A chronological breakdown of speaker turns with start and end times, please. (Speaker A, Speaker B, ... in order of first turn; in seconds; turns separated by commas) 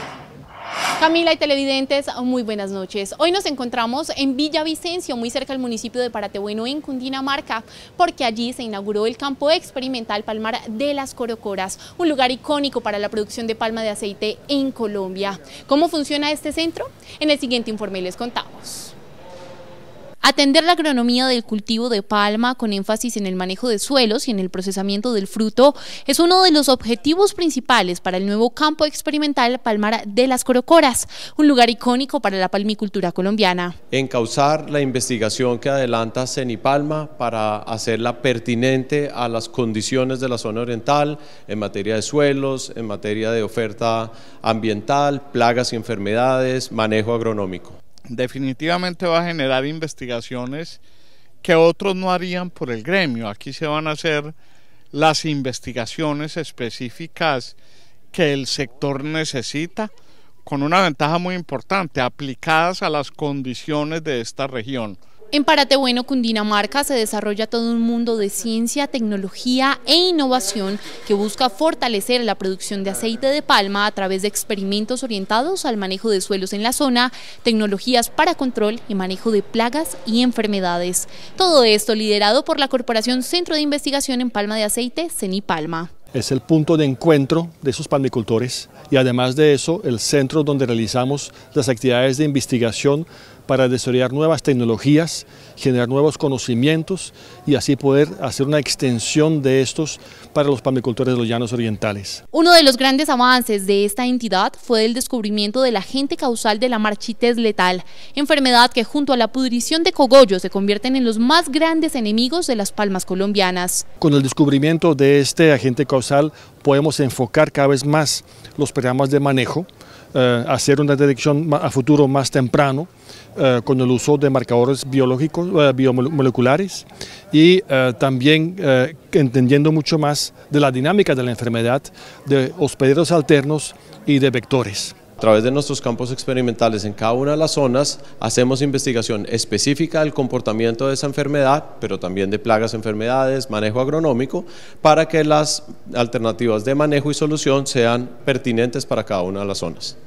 Speaker A: 1.0-18.9, Speaker A: 20.2-33.8, Speaker B: 33.9-47.8, Speaker C: 48.1-50.8, Speaker C: 51.4-54.3, Speaker C: 54.9-57.6, Speaker C: 58.1-59.9, Speaker C: 60.5-65.0, Speaker A: 65.3-85.9, Speaker D: 86.1-102.2, Speaker A: 102.3-113.8, Speaker D: 114.0-134.9, Speaker B: 135.2-150.0